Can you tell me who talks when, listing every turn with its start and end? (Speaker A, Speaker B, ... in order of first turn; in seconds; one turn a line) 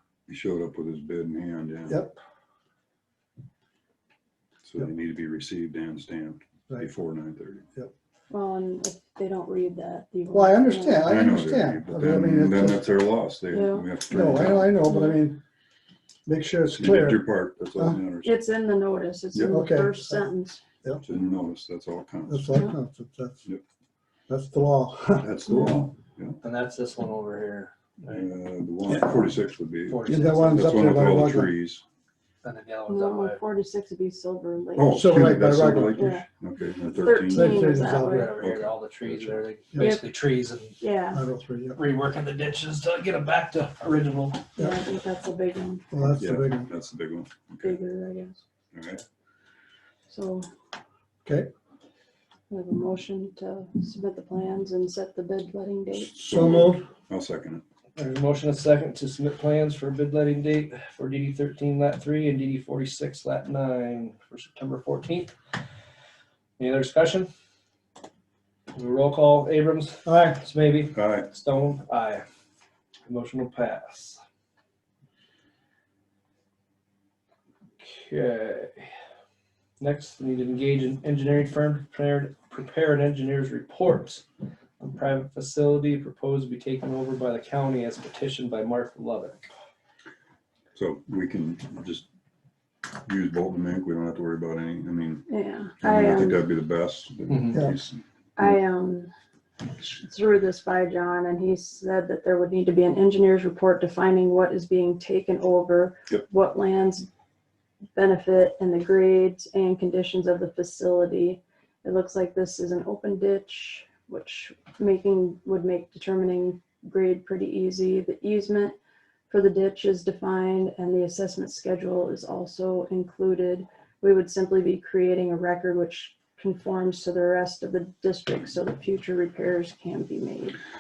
Speaker A: 0.3-2.0
Speaker B: 1.9-2.1
Speaker A: 4.6-7.7
Speaker C: 8.3-11.1
Speaker B: 10.3-12.9
Speaker A: 11.0-14.8
Speaker C: 13.5-13.9
Speaker B: 14.1-15.4
Speaker C: 14.8-15.2
Speaker B: 16.2-17.2
Speaker A: 16.7-18.3
Speaker C: 18.2-20.6
Speaker A: 19.3-19.6
Speaker B: 19.4-20.2
Speaker A: 21.0-22.5
Speaker B: 22.3-23.4
Speaker B: 24.3-25.3
Speaker A: 25.2-26.4
Speaker C: 25.5-25.8
Speaker D: 26.4-28.2
Speaker A: 28.1-31.8
Speaker B: 28.9-29.2
Speaker D: 29.9-30.7
Speaker B: 30.1-31.5
Speaker D: 32.4-33.4
Speaker C: 32.9-35.0
Speaker A: 34.8-37.8
Speaker B: 34.9-36.1
Speaker C: 35.9-36.2
Speaker C: 36.9-38.4
Speaker B: 37.3-38.3
Speaker D: 37.9-40.8
Speaker A: 38.4-39.4
Speaker C: 40.8-41.2
Speaker B: 41.1-41.8
Speaker D: 41.8-44.5
Speaker C: 44.6-45.8
Speaker B: 45.9-46.7
Speaker A: 46.0-47.8
Speaker C: 47.6-48.4
Speaker A: 48.7-49.0
Speaker C: 50.1-50.4
Speaker C: 52.5-56.3
Speaker A: 56.1-57.6
Speaker B: 56.2-56.8
Speaker D: 58.0-65.3
Speaker D: 66.6-67.3
Speaker D: 68.7-72.2
Speaker B: 70.0-70.4
Speaker A: 70.9-71.3
Speaker D: 73.0-74.2
Speaker D: 77.8-78.9
Speaker D: 79.8-84.2
Speaker D: 84.8-89.4
Speaker A: 90.7-92.0
Speaker A: 93.0-95.2
Speaker C: 95.3-96.4
Speaker A: 95.8-98.0
Speaker D: 97.3-97.5
Speaker C: 98.3-99.1
Speaker C: 99.7-107.1
Speaker C: 108.0-118.8
Speaker C: 119.3-130.6